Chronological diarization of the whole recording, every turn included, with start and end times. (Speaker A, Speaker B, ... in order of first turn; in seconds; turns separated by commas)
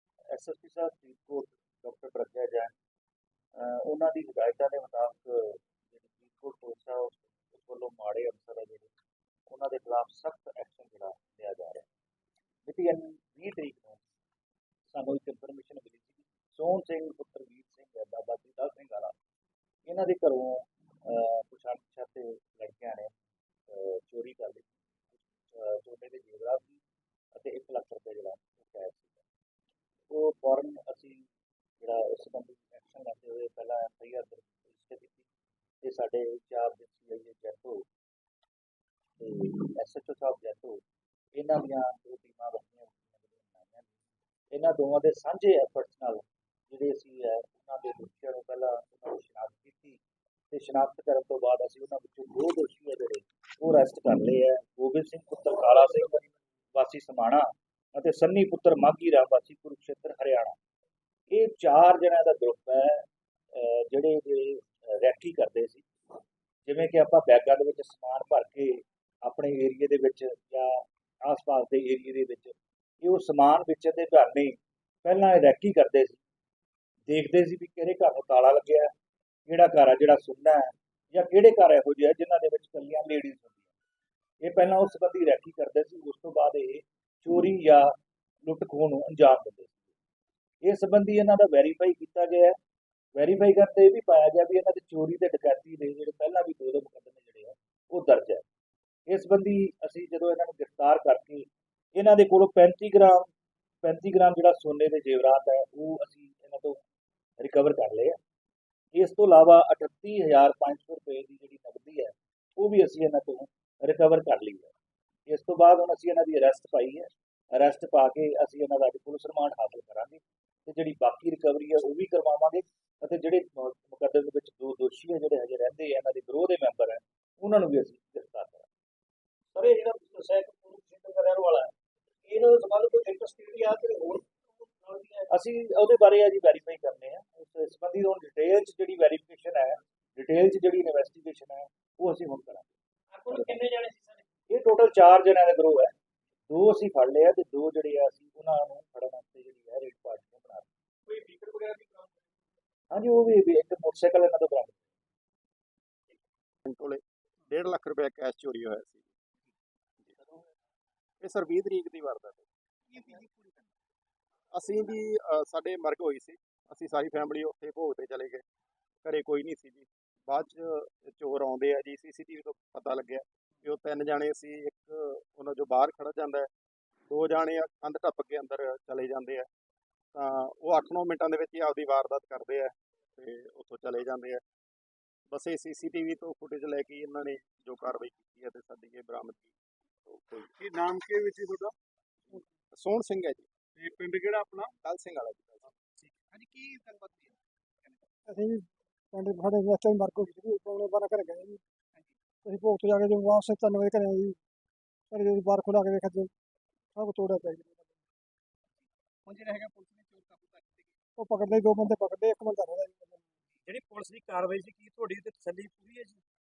Speaker A: 0.3-2.7, Speaker A: 3.5-8.9, Speaker A: 9.5-11.8, Speaker A: 12.7-14.0, Speaker A: 14.9-19.1, Speaker A: 19.9-23.1, Speaker A: 23.7-24.7, Speaker A: 25.5-26.8, Speaker A: 27.3-29.2, Speaker A: 30.1-31.2, Speaker A: 31.8-35.2, Speaker A: 35.8-37.8, Speaker A: 39.2-40.8, Speaker A: 41.3-43.9, Speaker A: 44.5-50.0, Speaker A: 50.5-60.5, Speaker A: 61.3-65.9, Speaker A: 66.6-76.2, Speaker A: 77.0-78.9, Speaker A: 79.5-83.6, Speaker A: 84.4-89.8, Speaker A: 90.6-92.6, Speaker A: 93.1-98.4, Speaker A: 99.1-103.3, Speaker A: 103.8-106.8, Speaker A: 107.4-108.2, Speaker A: 108.9-114.7, Speaker A: 115.3-128.7, Speaker B: 129.5-131.7, Speaker B: 132.3-135.3, Speaker A: 135.3-142.7, Speaker B: 143.1-144.2, Speaker A: 144.5-145.9, Speaker A: 146.5-150.7, Speaker B: 151.1-152.0, Speaker A: 152.9-154.8, Speaker C: 156.6-159.1, Speaker C: 161.2-162.4, Speaker D: 162.9-163.7, Speaker C: 164.5-168.4, Speaker C: 169.0-176.5, Speaker C: 177.1-179.5, Speaker C: 180.1-184.4, Speaker C: 185.3-189.5, Speaker C: 190.1-190.5, Speaker C: 192.7-193.5, Speaker D: 193.8-194.2, Speaker C: 194.8-195.7, Speaker D: 196.3-198.0, Speaker E: 198.3-201.6, Speaker E: 202.4-204.4, Speaker E: 205.1-206.3, Speaker E: 206.9-207.9, Speaker D: 209.2-210.9, Speaker E: 211.2-213.2, Speaker B: 213.7-216.2